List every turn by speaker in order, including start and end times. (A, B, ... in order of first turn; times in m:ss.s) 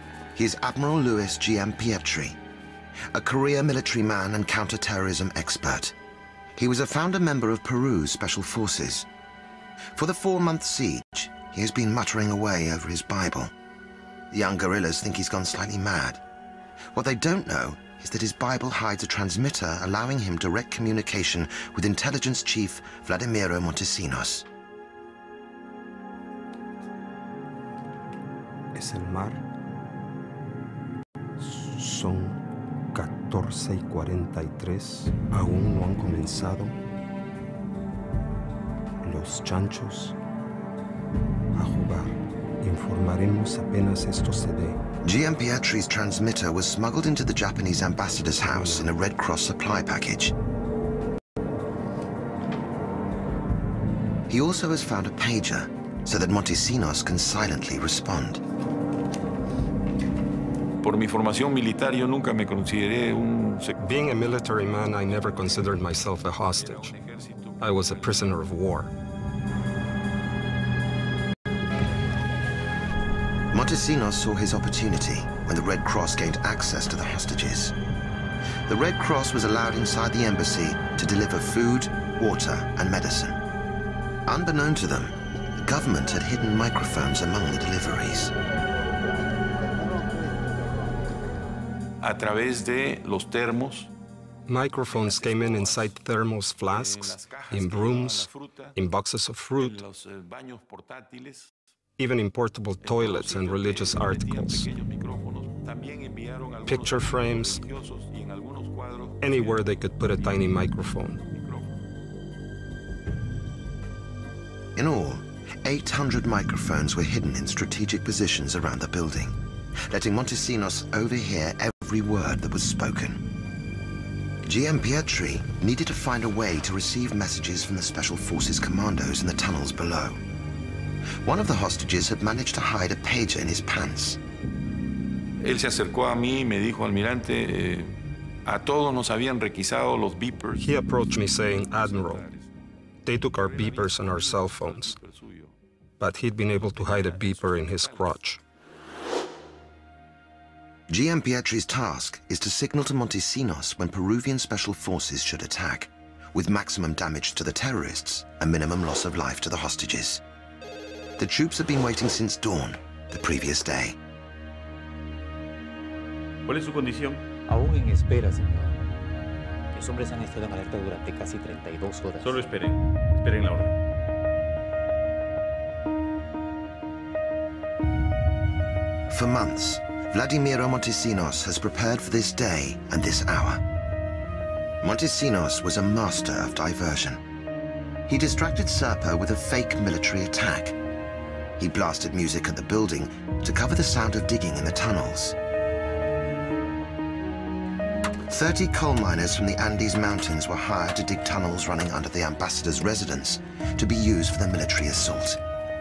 0:00.3-0:02.4 A
0:03.1-0:05.9 A
0:06.6-0:09.1 A
0:09.9-0:13.5 A
0:14.3-0:16.2 A
0:16.9-0:24.4 A
0:28.7-0:29.4 B
0:31.4-0:32.4 B
0:32.9-0:36.8 B
0:39.0-0:40.1 B
0:41.5-0:44.8 B
0:45.0-0:50.3 A
0:54.3-0:58.4 A
1:00.8-1:03.8 C
1:03.8-1:06.9 D
1:05.1-1:08.2 C
1:07.6-1:08.9 D
1:13.5-1:17.7 A
1:18.7-1:23.4 A
1:24.2-1:28.3 A
1:32.0-1:33.9 C
1:34.5-1:39.8 D
1:34.8-1:35.9 C
1:36.7-1:38.8 C
1:39.5-1:41.5 C
1:42.0-1:44.7 D
1:42.8-1:50.4 C
1:46.7-1:47.6 D
1:49.2-1:51.2 D
1:51.3-1:51.7 C
1:54.8-1:59.4 A
1:59.9-2:03.2 A
2:04.4-2:10.2 A
2:11.2-2:14.2 A
2:15.4-2:20.7 C
2:20.6-2:22.2 D
2:21.3-2:22.6 C
2:23.0-2:25.0 D
2:23.2-2:25.5 C
2:26.0-2:28.4 D
2:26.6-2:28.2 C
2:30.9-2:40.2 A
2:41.2-2:44.0 A
2:46.5-2:47.2 E
2:47.5-2:48.7 F
2:49.7-2:52.3 F
2:52.2-2:53.7 E
2:59.1-3:03.6 A
3:04.8-3:07.2 A
3:08.1-3:10.7 A
3:11.6-3:15.4 A
3:18.3-3:25.4 A